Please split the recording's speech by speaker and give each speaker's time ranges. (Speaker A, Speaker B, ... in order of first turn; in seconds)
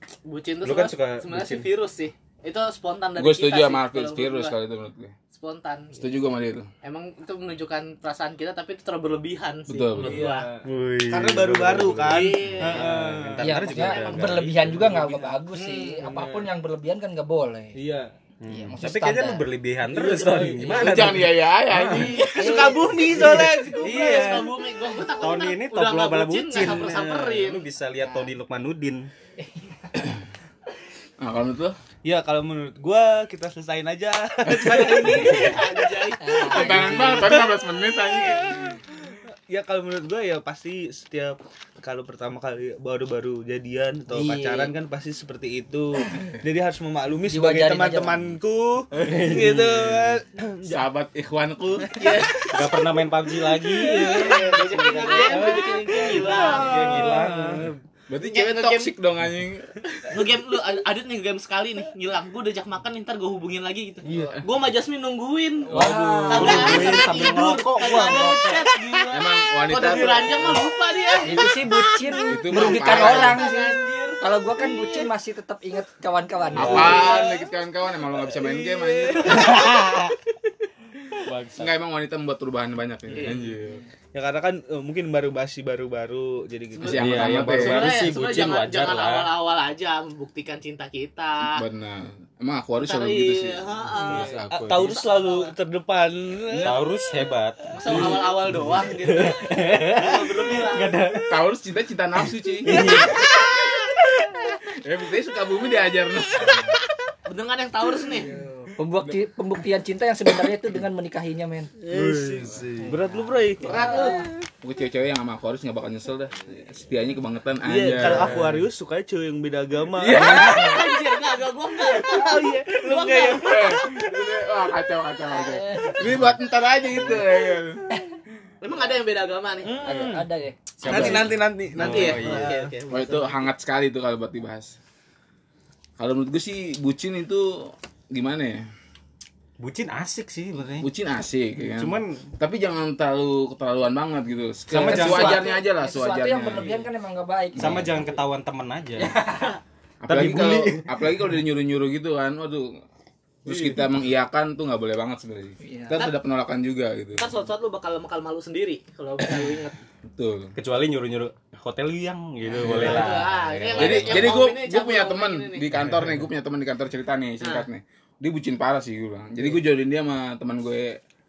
Speaker A: 0.2-4.5, 5.3-6.2, 6.8-10.5, 12.0-12.9, 13.8-14.2, 15.5-16.0, 23.7-27.6, 34.7-37.4, 51.8-52.7, 53.8-57.0, 58.2-58.9, 60.1-65.7, 66.3-71.6, 72.5-74.1, 76.7-77.4, 83.1-83.4, 86.7-91.6, 92.8-95.5, 97.7-100.9, 107.3-108.3, 113.6-114.3, 120.1-123.5, 125.5-125.9, 128.6-130.1, 131.7-133.5, 149.3-149.6, 157.2-159.8, 162.6-165.7, 167.4-167.7
Speaker B: 0.6-1.7, 10.6-15.4, 18.4-22.1, 23.3-24.5, 25.1-29.1, 49.0-50.1, 52.5-57.7, 65.7-67.7, 76.5-77.1, 79.4-80.1, 81.2-81.7, 86.9-89.3, 96.6-98.3, 98.9-101.4, 102.2-103.2, 111.9-113.0, 118.0-118.7, 130.8-132.5, 139.6-140.9, 141.7-142.3, 144.7-145.5, 147.6-149.1, 150.1-151.1, 160.6-164.4, 165.8-166.1
Speaker C: 3.2-5.1, 5.9-6.7, 9.7-10.2, 20.7-22.6, 31.2-31.8, 34.5-35.1, 36.5-38.8, 50.6-51.9, 58.1-60.1, 65.7-66.8, 69.1-70.6, 72.3-73.4, 76.5-79.5, 81.6-83.8, 86.8-88.1, 91.4-95.0, 101.3-103.0, 104.8-106.6, 114.6-118.5, 119.9-120.8, 123.4-127.9, 130.8-131.3, 132.9-134.7, 136.0-138.6, 140.8-146.8, 147.6-147.9, 150.0-152.8, 153.4-157.3, 160.1-160.5, 162.5-171.0
Speaker D: 10.0-13.5, 16.0-16.4, 17.8-18.1, 19.9-21.1, 21.9-24.5, 32.0-37.5, 39.5-50.8, 51.8-52.6, 53.7-57.7, 66.3-69.1, 69.8-70.2, 72.9-74.2, 76.7-77.4, 78.2-79.8, 84.1-87.5, 94.0-96.8, 102.7-103.2, 111.8-114.2, 117.6-120.8, 121.8-124.0, 129.6-130.3, 130.8-132.7
Speaker E: 13.4-17.8, 18.5-19.4, 22.3-23.2, 28.0-28.3, 29.4-29.7, 36.2-37.2, 44.1-44.7, 47.3-48.3, 65.7-66.8, 71.2-77.0, 108.2-111.7, 112.9-114.3, 129.8-131.2, 144.8-147.9, 149.0-149.5, 155.6-156.0